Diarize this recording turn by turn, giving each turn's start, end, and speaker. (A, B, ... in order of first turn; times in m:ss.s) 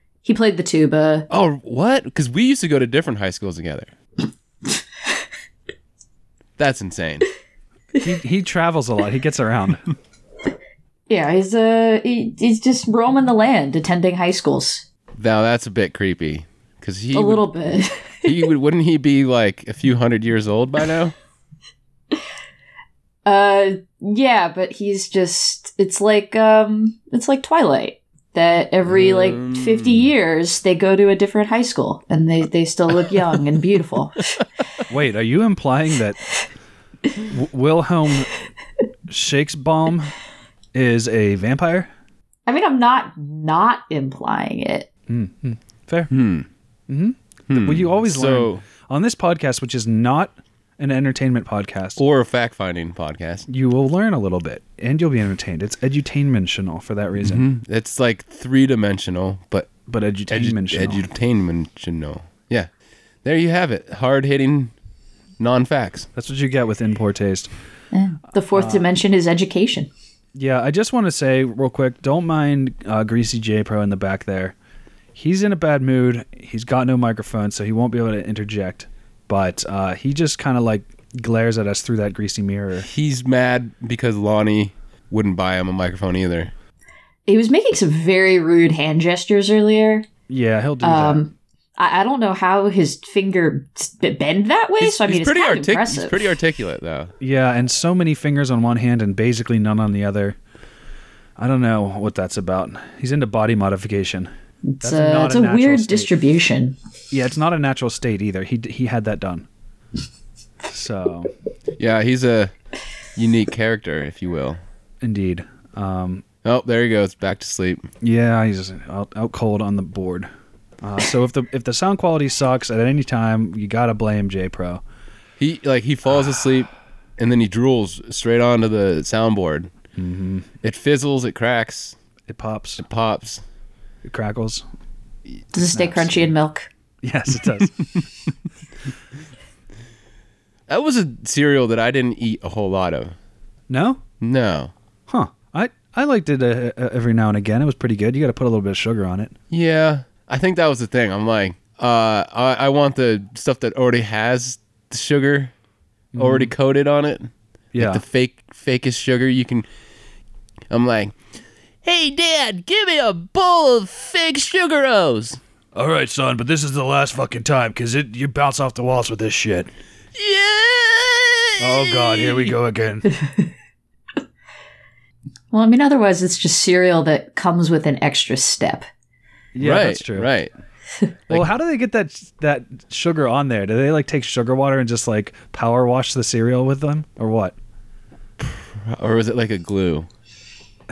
0:00.2-0:01.3 A
0:01.3-0:03.9 B
0:06.6-0:07.3 B
0:08.0-0:09.8 C
0:11.1-0:14.8 A
0:15.2-0:17.5 B
0:17.1-0:18.4 A
0:18.2-0:21.1 B
0:23.3-0:34.4 A
0:28.9-0:30.1 B
0:34.9-0:36.2 C
0:37.2-0:38.4 C
0:39.1-0:40.1 C
0:40.7-0:41.9 C
0:42.5-0:44.9 A
0:45.1-0:46.1 C
0:46.1-0:46.5 B
0:46.9-0:52.0 C
0:47.5-0:48.6 B
0:52.0-0:53.5 B
0:53.5-0:57.5 C
0:57.2-0:59.7 B
0:59.9-1:01.0 C
1:00.3-1:02.7 B
1:03.2-1:04.7 B
1:05.4-1:06.1 B
1:06.2-1:07.5 C
1:07.9-1:09.9 A
1:08.5-1:08.9 C
1:10.4-1:14.6 C
1:15.2-1:22.9 C
1:22.9-1:26.5 B
1:27.3-1:30.1 A
1:30.3-1:31.2 C
1:30.8-1:36.2 A
1:34.8-1:37.1 B
1:37.2-1:40.4 C
1:41.4-1:44.3 C
1:44.7-1:46.8 A
1:44.8-1:46.1 C
1:47.1-1:49.5 C
1:50.7-1:51.3 C
1:51.8-1:52.5 B
1:53.2-1:54.6 B
1:55.0-1:56.2 C
1:56.4-1:57.8 B
1:58.0-2:00.3 C
2:00.8-2:04.8 C
2:05.4-2:09.7 B
2:10.0-2:10.5 C
2:10.6-2:12.0 B
2:12.3-2:12.8 C
2:12.8-2:13.4 B
2:14.0-2:14.7 C
2:15.5-2:16.7 A
2:15.7-2:16.3 C
2:17.0-2:17.8 C
2:20.7-2:23.2 B
2:23.7-2:24.0 C
2:24.2-2:24.7 B
2:25.1-2:29.3 C
2:29.5-2:35.5 B
2:36.2-2:36.5 C
2:36.2-2:39.7 B
2:37.7-2:38.0 C
2:40.7-2:41.1 B
2:41.8-2:45.4 B
2:45.8-2:49.7 C
2:50.2-2:52.5 B
2:51.6-2:53.1 C
2:55.5-2:58.9 A
2:59.6-3:00.3 C
2:59.6-3:00.5 B
3:01.3-3:07.6 C
3:08.4-3:10.1 B